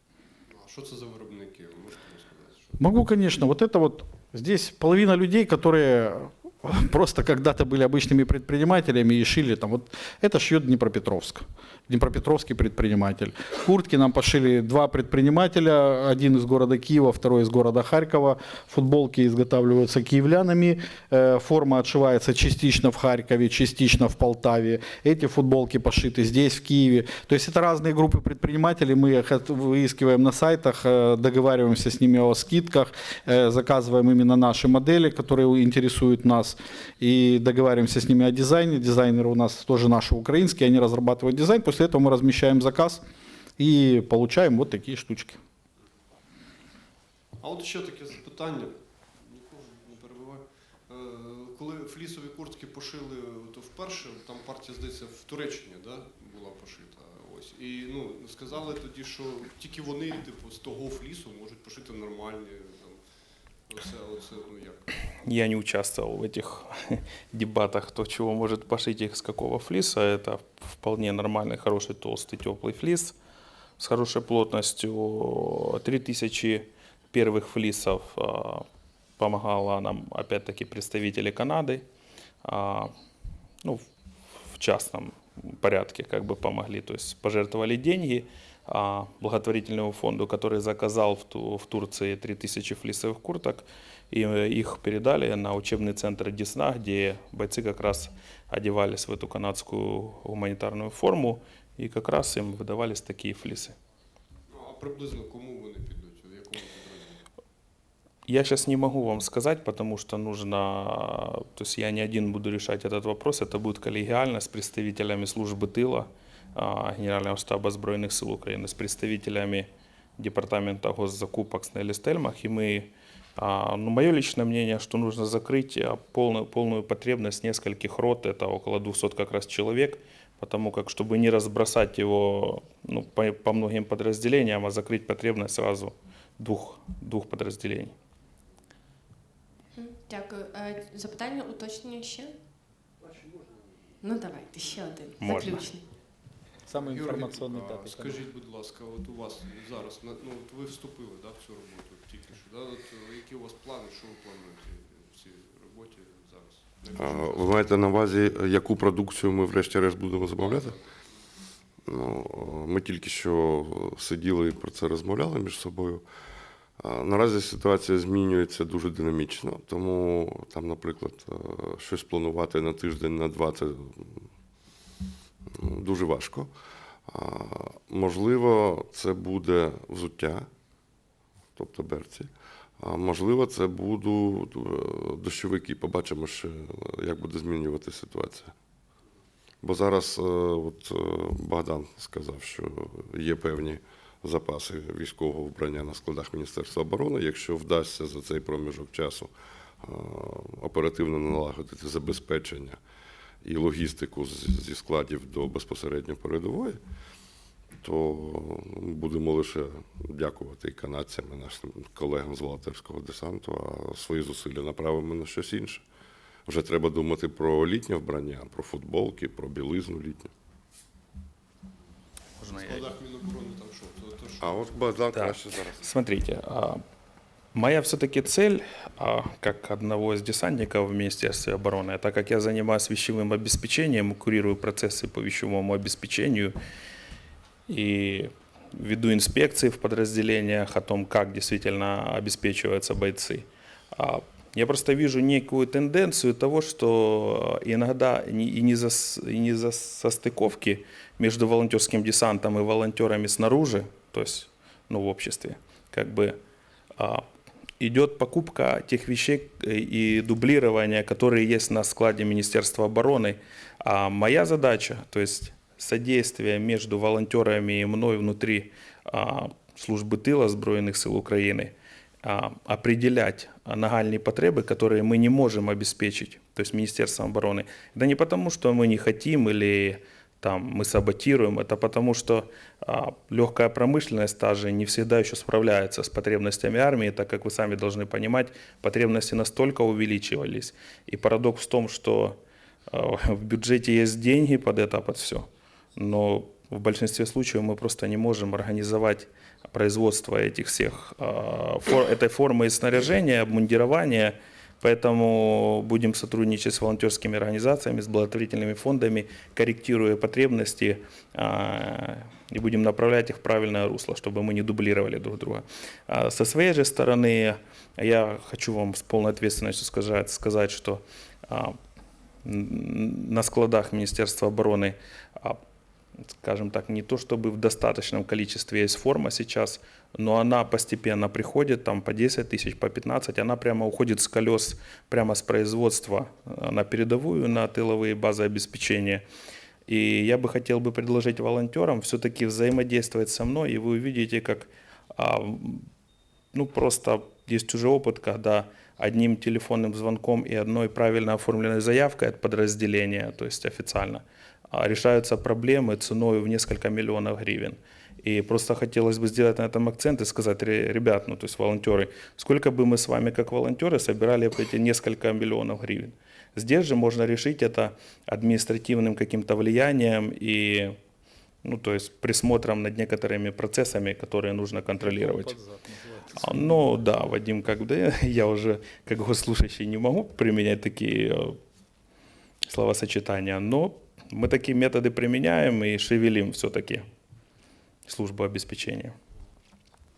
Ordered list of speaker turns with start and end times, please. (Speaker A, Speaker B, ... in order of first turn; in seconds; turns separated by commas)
Speaker A: 0.5-2.8, Speaker B: 2.8-43.0, Speaker B: 43.6-45.4, Speaker A: 47.4-63.0, Speaker A: 63.7-64.9, Speaker C: 65.2-73.2, Speaker C: 73.8-78.7, Speaker C: 79.2-81.8, Speaker C: 82.4-82.9, Speaker C: 84.5-103.8, Speaker A: 104.5-107.3, Speaker C: 108.3-137.9, Speaker D: 139.8-142.3, Speaker D: 144.0-145.9, Speaker C: 145.2-145.7, Speaker B: 146.7-148.2, Speaker A: 146.8-157.8, Speaker E: 157.0-160.8, Speaker A: 160.3-160.8, Speaker E: 161.9-166.1, Speaker E: 166.8-174.3, Speaker E: 175.6-176.5, Speaker E: 177.1-180.5, Speaker E: 181.6-188.5, Speaker E: 189.6-199.3, Speaker E: 199.8-202.8, Speaker E: 203.4-206.8, Speaker E: 207.8-215.8, Speaker E: 216.5-220.3, Speaker C: 222.4-222.9, Speaker A: 222.5-224.9, Speaker E: 224.4-225.8, Speaker C: 225.1-226.8, Speaker C: 227.5-236.5, Speaker C: 237.7-256.4, Speaker C: 257.0-257.2, Speaker C: 257.8-292.4, Speaker C: 292.9-321.8, Speaker C: 322.4-325.6, Speaker C: 326.4-339.2, Speaker C: 339.9-345.9, Speaker C: 346.5-371.0, Speaker C: 371.6-375.6, Speaker B: 375.0-377.0, Speaker C: 376.3-381.6, Speaker C: 382.7-387.0, Speaker C: 388.1-389.1